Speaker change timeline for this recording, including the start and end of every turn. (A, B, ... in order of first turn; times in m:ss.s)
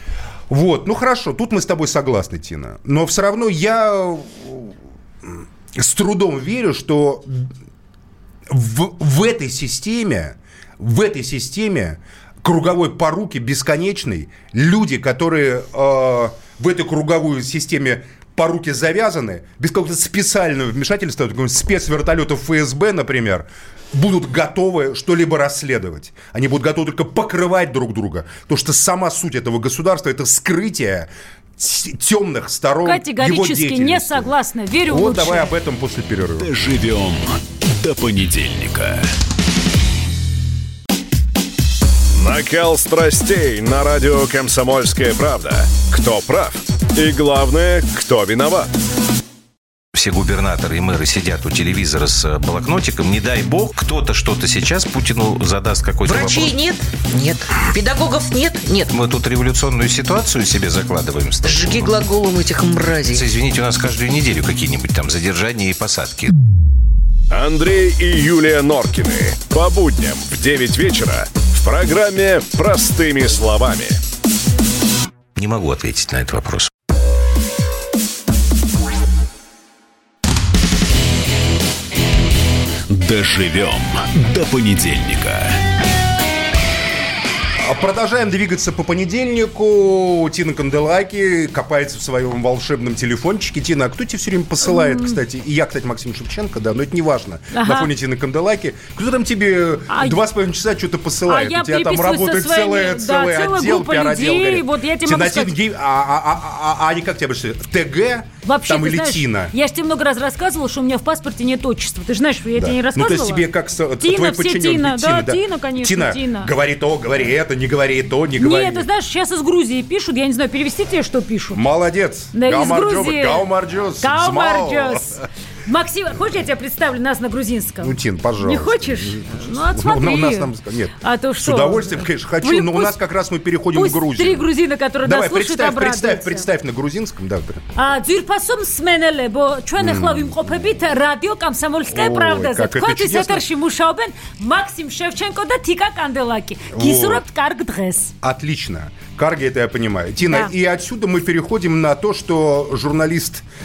0:00.5-0:07.5 A
0:08.5-0:34.4 A
0:32.8-0:35.6 B
0:34.9-0:36.5 A
0:36.4-0:39.1 C
0:42.2-0:48.7 D
0:49.9-0:56.6 E
0:56.0-0:59.0 F
0:58.9-1:02.0 E
1:01.4-1:03.3 F
1:03.1-1:06.4 E
1:07.3-1:14.0 D
1:15.4-1:16.7 E
1:22.9-1:25.6 C
1:27.6-1:49.5 A
1:34.6-1:35.2 B
1:37.5-1:37.9 B
1:39.9-1:40.2 B
1:41.3-1:45.6 B
1:48.4-1:53.5 B
1:52.6-1:58.9 A
1:54.0-1:56.5 B
1:58.4-2:01.6 B
2:01.5-2:05.3 A
2:02.3-2:03.5 B
2:04.0-2:13.0 B
2:07.8-2:14.5 A
2:13.7-2:16.5 B
2:15.0-2:17.6 A
2:17.8-2:28.1 B
2:19.8-2:20.8 A
2:21.9-2:23.4 A
2:26.7-2:27.2 A
2:28.2-2:33.5 A
2:30.2-2:30.5 B